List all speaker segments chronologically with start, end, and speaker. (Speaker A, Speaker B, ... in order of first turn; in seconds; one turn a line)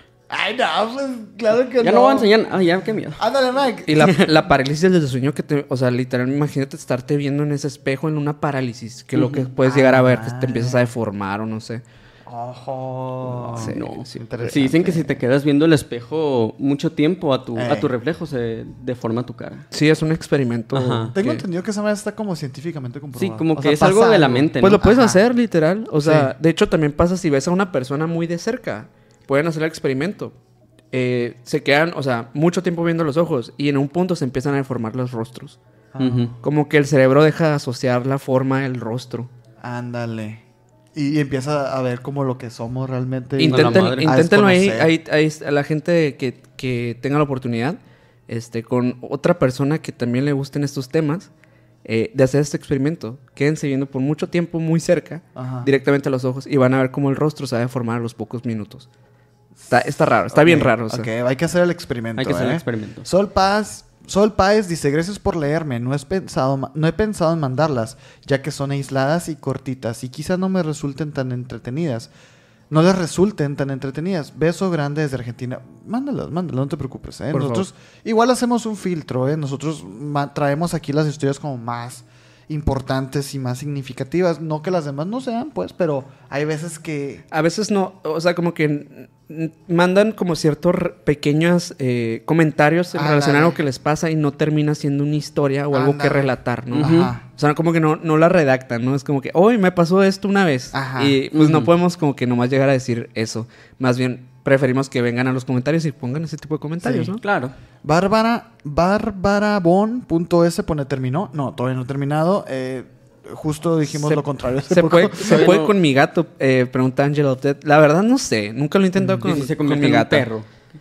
Speaker A: 0.3-2.3
Speaker B: 1.8-3.2
Speaker A: 3.2-4.2
Speaker C: 3.9-11.8
Speaker B: 4.0-4.3
Speaker B: 9.2-9.5
Speaker A: 9.6-10.9
Speaker A: 12.3-15.2
Speaker C: 13.5-14.7
Speaker B: 13.6-19.7
Speaker A: 17.6-17.9
Speaker C: 19.7-21.4
Speaker B: 20.7-21.1
Speaker A: 21.1-25.2
Speaker B: 23.1-24.8
Speaker C: 24.6-30.4
Speaker A: 26.0-26.3
Speaker C: 30.9-35.6
Speaker A: 35.9-36.4
Speaker B: 36.0-36.4
Speaker C: 36.4-39.3
Speaker A: 39.6-44.9
Speaker C: 43.4-51.3
Speaker B: 43.4-44.1
Speaker C: 51.9-58.9
Speaker A: 55.4-55.7
Speaker A: 59.6-72.1
Speaker C: 59.7-61.1
Speaker B: 62.2-63.1
Speaker A: 72.7-87.2
Speaker C: 77.3-77.7
Speaker C: 87.3-107.2
Speaker A: 92.9-93.6
Speaker A: 95.7-97.2
Speaker B: 96.7-97.1
Speaker A: 100.7-101.2
Speaker B: 101.4-101.6
Speaker A: 106.8-107.2
Speaker B: 107.2-107.5
Speaker A: 107.8-115.5
Speaker C: 113.9-120.3
Speaker B: 115.2-115.7
Speaker A: 119.0-119.3
Speaker B: 119.2-120.5